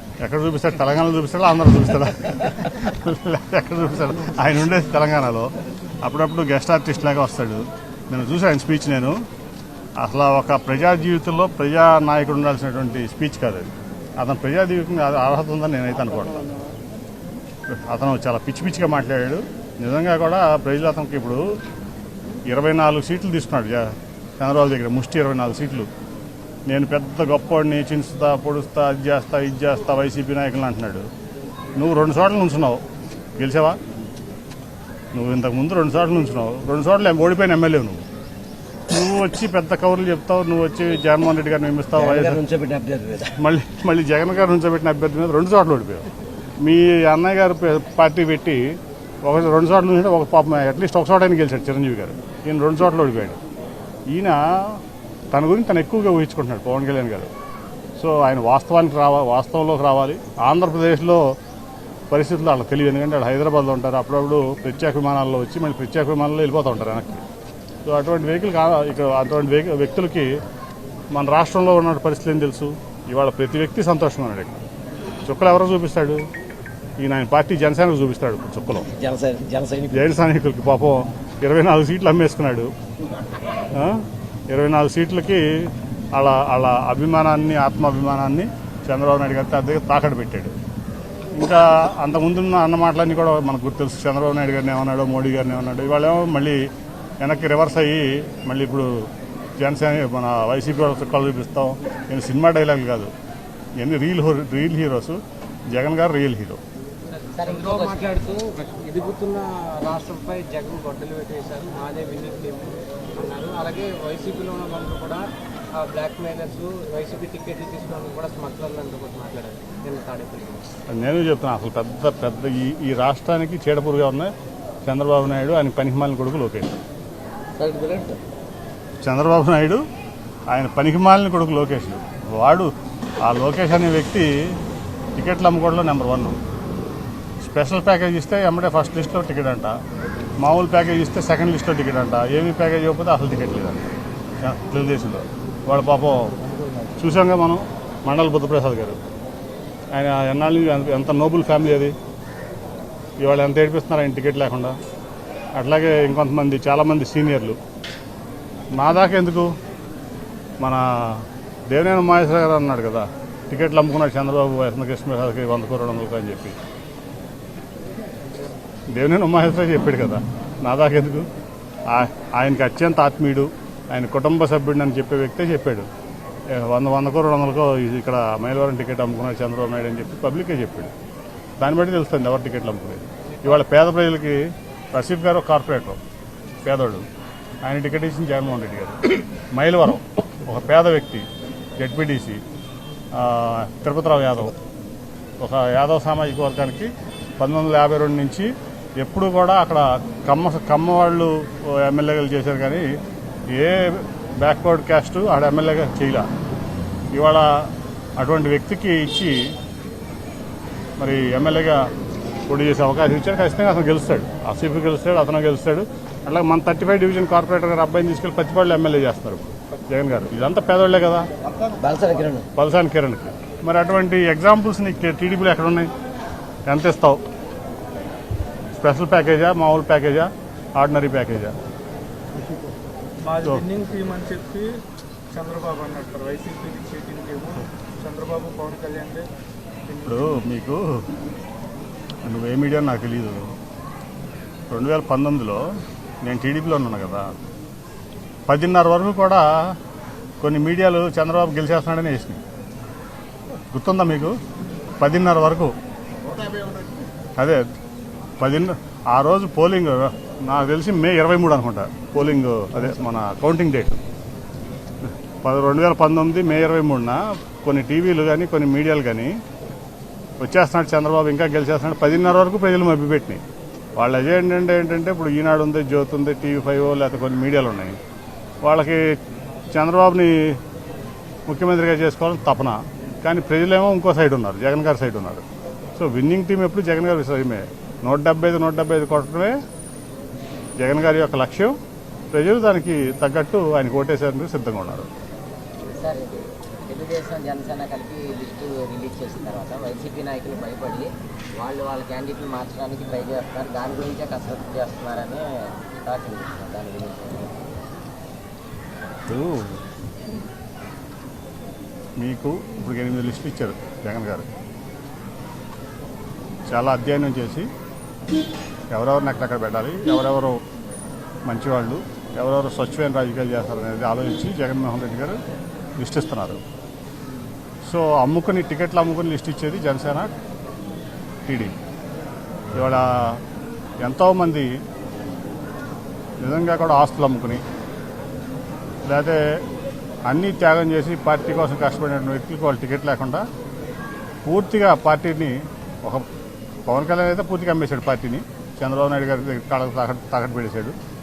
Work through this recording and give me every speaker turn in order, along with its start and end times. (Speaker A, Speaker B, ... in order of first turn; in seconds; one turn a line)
Speaker A: 0.2-5.5
Speaker A: 6.0-9.2
Speaker A: 10.0-16.5
Speaker A: 17.7-21.4
Speaker A: 22.5-25.9
Speaker A: 26.7-31.1
Speaker A: 31.8-32.8
Speaker A: 33.4-33.8
Speaker A: 35.1-38.0
Speaker A: 38.9-42.4
Speaker B: 41.9-43.4
Speaker A: 43.4-46.1
Speaker A: 46.6-53.4
Speaker A: 54.1-54.8
Speaker A: 55.3-57.3
Speaker A: 58.0-61.2
Speaker A: 62.1-67.2
Speaker A: 67.8-70.3
Speaker A: 71.1-74.6
Speaker A: 75.2-76.2
Speaker A: 77.0-78.9
Speaker B: 78.9-80.1
Speaker A: 79.9-82.7
Speaker A: 83.7-90.5
Speaker A: 91.3-96.6
Speaker A: 97.2-98.9
Speaker A: 99.6-103.1
Speaker A: 103.8-106.6
Speaker C: 107.3-108.2
Speaker D: 107.4-115.2
Speaker D: 115.7-120.7
Speaker A: 120.9-124.3
Speaker A: 124.8-126.8
Speaker B: 127.6-128.2
Speaker A: 129.0-129.8
Speaker A: 130.5-132.7
Speaker A: 133.2-134.6
Speaker A: 135.2-136.4
Speaker A: 137.4-139.8
Speaker A: 140.4-143.9
Speaker A: 144.4-146.3
Speaker A: 146.9-149.0
Speaker A: 149.9-151.9
Speaker A: 153.2-154.8
Speaker A: 155.6-157.6
Speaker A: 158.7-159.5
Speaker A: 160.6-166.6
Speaker A: 168.9-171.3
Speaker A: 171.9-175.9
Speaker A: 176.5-180.9
Speaker A: 181.6-186.0
Speaker A: 186.6-187.1
Speaker A: 187.6-191.2
Speaker A: 191.8-192.4
Speaker A: 193.1-194.6
Speaker A: 195.4-202.9
Speaker A: 203.5-206.3
Speaker A: 207.1-209.5
Speaker A: 211.0-211.8
Speaker A: 212.5-221.3
Speaker B: 221.8-222.4
Speaker A: 222.6-225.9
Speaker A: 226.7-227.2
Speaker A: 228.8-231.5
Speaker E: 233.2-234.7
Speaker E: 235.3-239.2
Speaker A: 240.0-241.0
Speaker A: 242.2-243.4
Speaker A: 244.7-245.6
Speaker A: 246.2-247.3
Speaker A: 248.5-249.4
Speaker A: 250.4-252.4
Speaker A: 253.7-254.3
Speaker A: 255.0-255.7
Speaker A: 257.4-257.6
Speaker A: 258.4-264.0
Speaker A: 265.4-269.3
Speaker A: 270.4-273.4
Speaker A: 273.9-278.0
Speaker A: 278.6-279.2
Speaker A: 279.7-280.6
Speaker A: 281.5-285.4
Speaker A: 286.0-289.5
Speaker A: 290.8-291.7
Speaker A: 292.3-295.1
Speaker C: 295.9-301.1
Speaker C: 301.6-305.4
Speaker C: 306.0-307.5
Speaker A: 309.3-309.8
Speaker A: 312.2-314.4
Speaker A: 316.7-317.7
Speaker A: 318.9-320.6
Speaker A: 321.4-325.4
Speaker A: 326.0-326.6
Speaker A: 327.9-330.3
Speaker A: 331.4-331.7
Speaker A: 332.7-333.4
Speaker A: 334.0-334.7
Speaker A: 336.4-337.6
Speaker A: 339.1-339.6
Speaker A: 340.2-343.4
Speaker A: 344.4-346.2
Speaker A: 346.9-350.9